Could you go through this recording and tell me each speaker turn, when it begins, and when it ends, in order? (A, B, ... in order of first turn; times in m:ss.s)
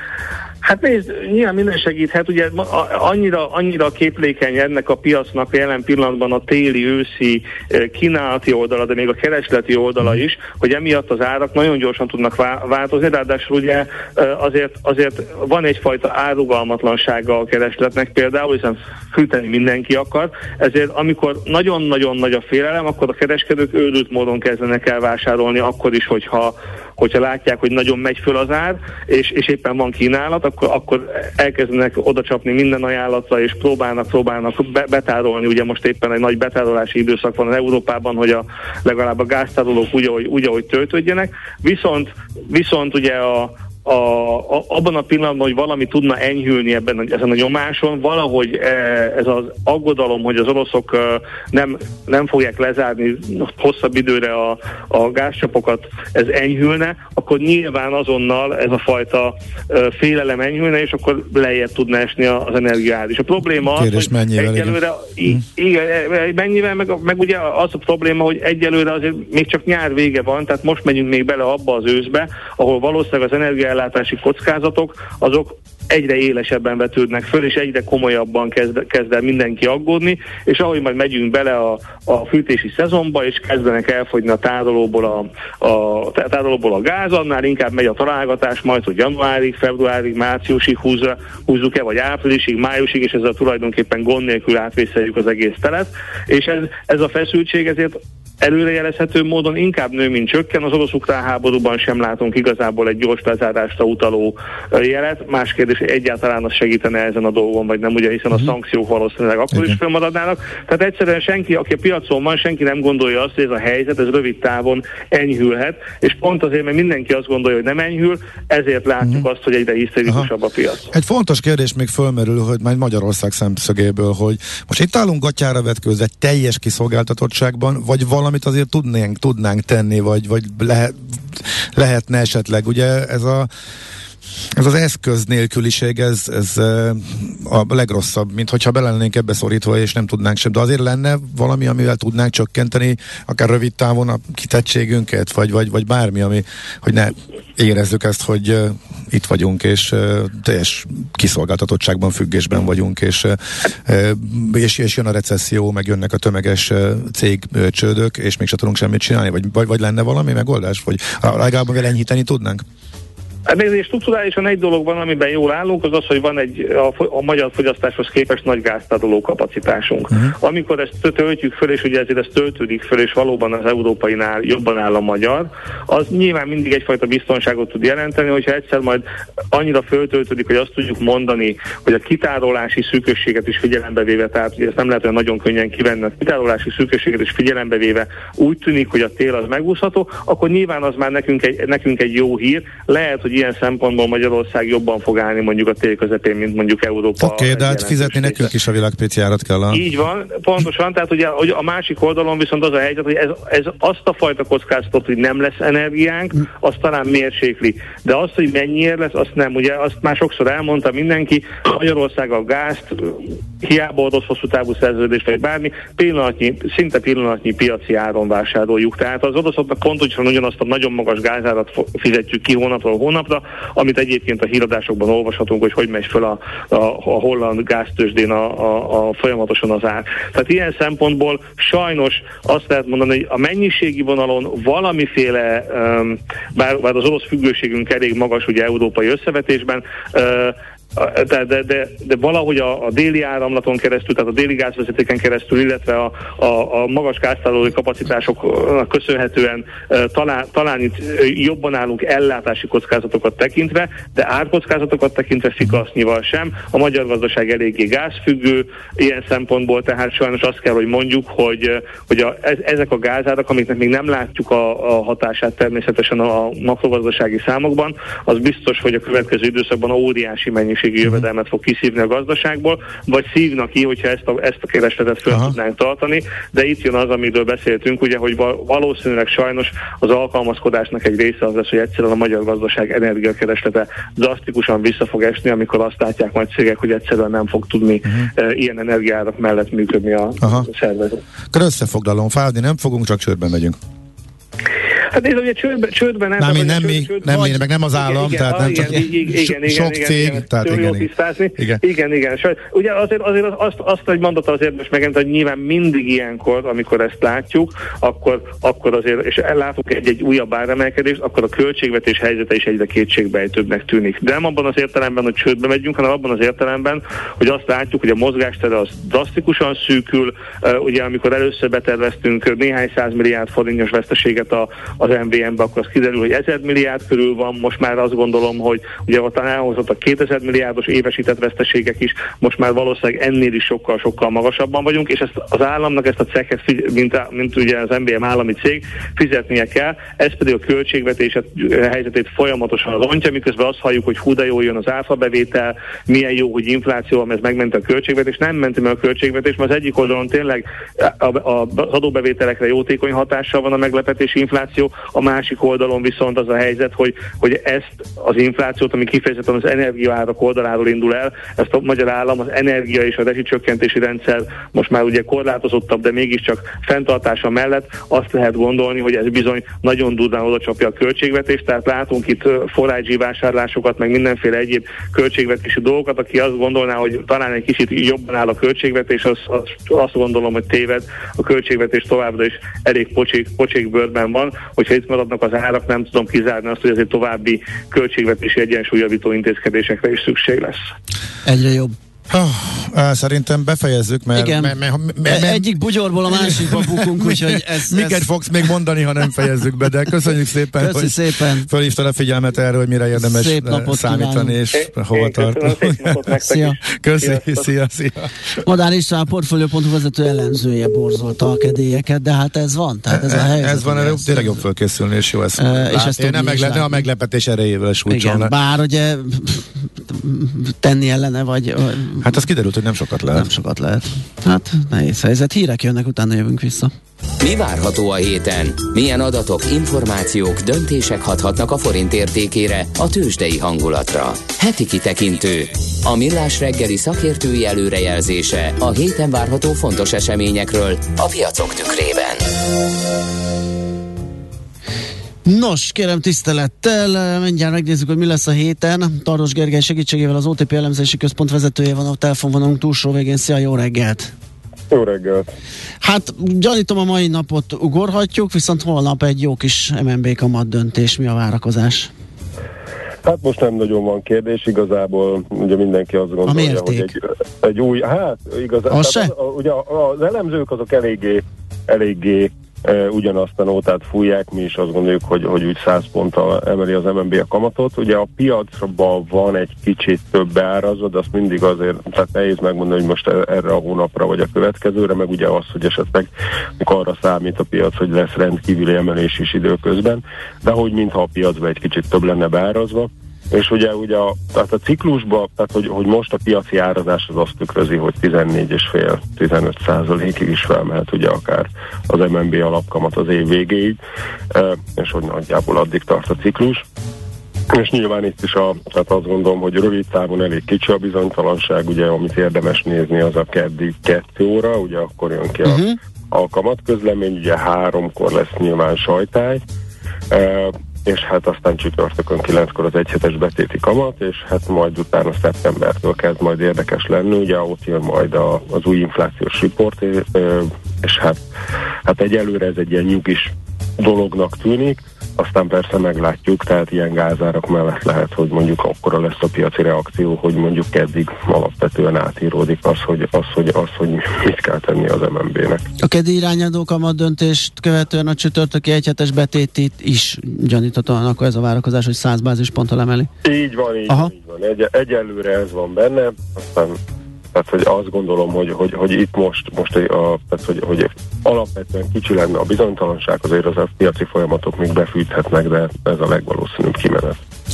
0:00.6-2:00.9 A
1:03.6-1:05.4 B
1:49.5-1:49.8 B
2:00.9-2:13.5 B
2:14.6-2:42.6 B
2:43.5-3:18.5 A
3:17.2-3:19.8 B
3:19.7-4:51.2 A
4:35.3-4:35.5 B
4:50.4-4:50.7 B
4:51.5-4:53.8 B
4:55.1-6:30.8 A
4:56.4-5:01.8 B
4:57.3-4:57.6 C
6:31.4-6:32.0 C
6:32.3-6:35.7 B
6:34.3-6:34.7 C
6:35.2-6:38.3 C
6:36.2-6:46.4 B
6:40.8-6:41.7 C
6:43.2-6:44.6 C
6:44.8-6:47.7 A
6:46.5-6:46.7 C
6:46.9-6:48.3 B
6:48.6-6:54.6 C
6:53.1-6:58.5 B
6:55.6-6:57.0 C
6:58.1-7:02.4 C
7:02.2-7:03.5 B
7:03.3-7:06.9 C
7:07.4-7:22.5 D
7:25.4-7:34.3 C
7:34.9-7:35.5 E
7:36.0-7:42.1 C
7:43.2-8:24.0 E
7:46.4-7:47.1 C
7:48.9-7:49.3 C
8:24.5-8:26.8 E
8:27.7-8:39.6 E
8:35.6-8:36.0 C
8:40.3-8:51.4 E
8:52.0-9:05.8 E
9:06.0-9:13.3 C
9:13.4-9:17.0 E
9:17.5-9:27.4 E